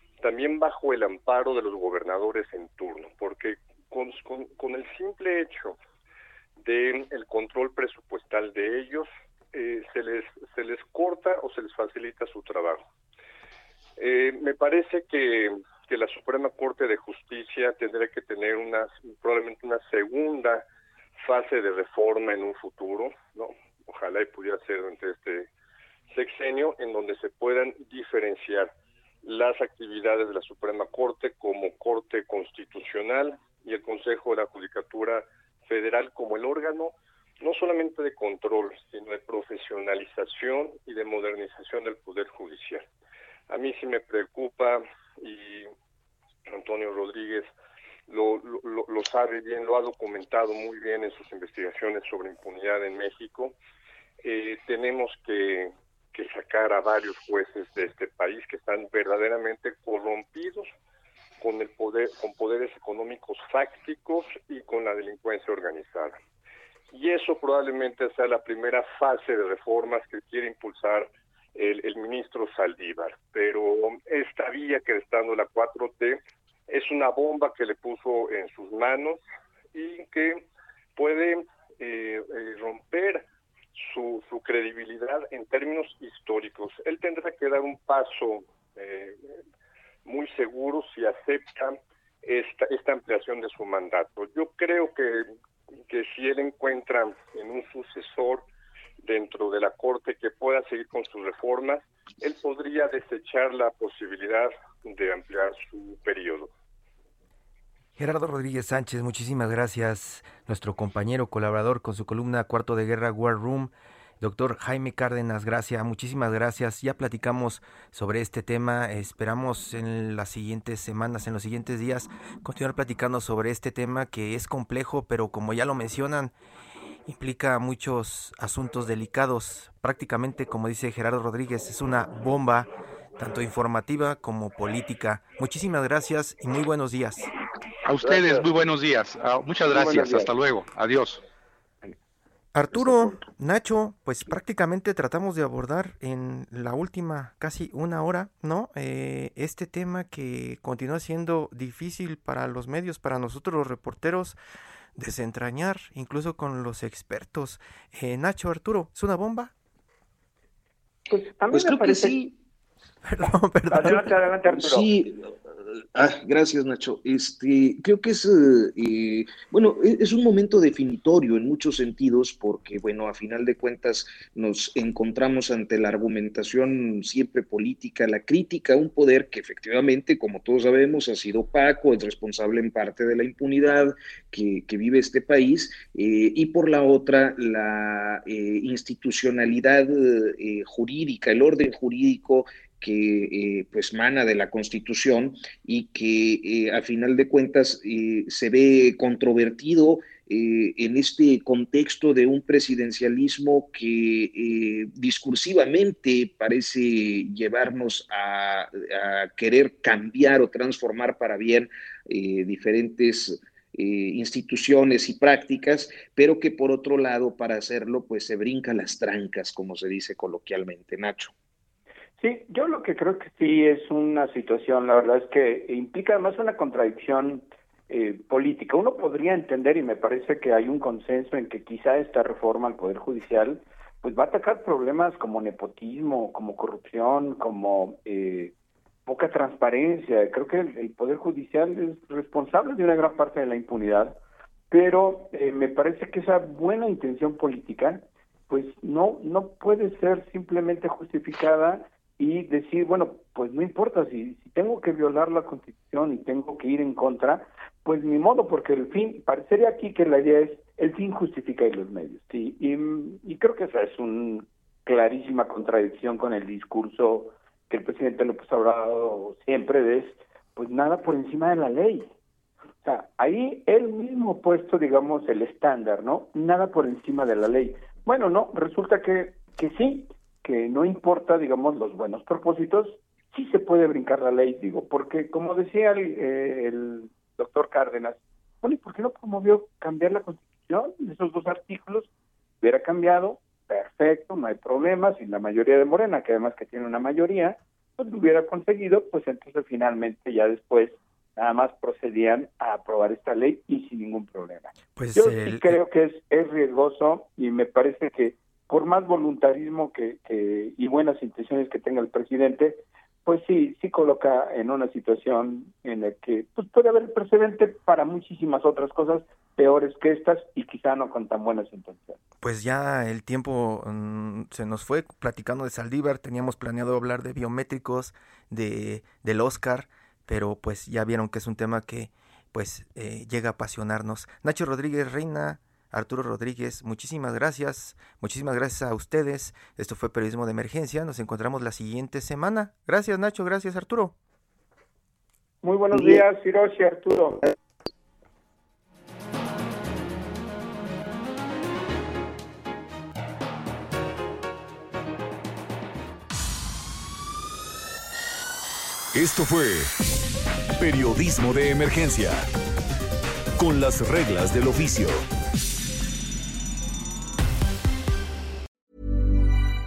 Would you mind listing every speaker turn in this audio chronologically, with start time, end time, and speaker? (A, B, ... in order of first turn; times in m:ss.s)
0:00.2-0:05.8 A
0:06.6-0:12.8 A
0:14.0-0:20.6 A
0:21.2-0:25.5 A
0:26.1-0:28.7 A
0:29.2-0:42.9 A
0:43.5-0:45.7 A
0:46.5-0:47.5 A
0:48.1-0:53.6 A
0:54.2-1:00.7 A
1:01.4-1:06.2 A
1:06.9-1:19.2 A
1:19.7-1:20.4 A
1:21.0-1:29.2 A
1:30.0-1:35.3 A
1:35.9-1:38.4 A
1:39.0-1:46.5 A
1:48.0-2:06.3 B
2:07.1-2:17.3 B
2:17.8-2:21.2 C
2:18.0-2:18.4 D
2:19.7-2:20.3 D
2:22.5-2:34.4 B
2:22.7-2:23.2 D
2:35.0-2:39.5 B
2:41.1-2:42.3 D
2:41.5-2:42.2 E
2:43.0-2:44.1 B
2:43.7-2:44.9 D
2:44.5-3:41.3 E
3:42.2-3:58.5 D
3:59.1-4:04.2 D
4:04.7-4:32.1 D
4:32.8-4:52.1 D
4:52.6-5:22.2 D
5:05.0-5:05.8 B
5:22.4-5:44.2 B
5:45.6-5:47.5 D
5:59.1-6:00.0 F
6:00.8-6:02.5 F
6:03.6-6:05.3 F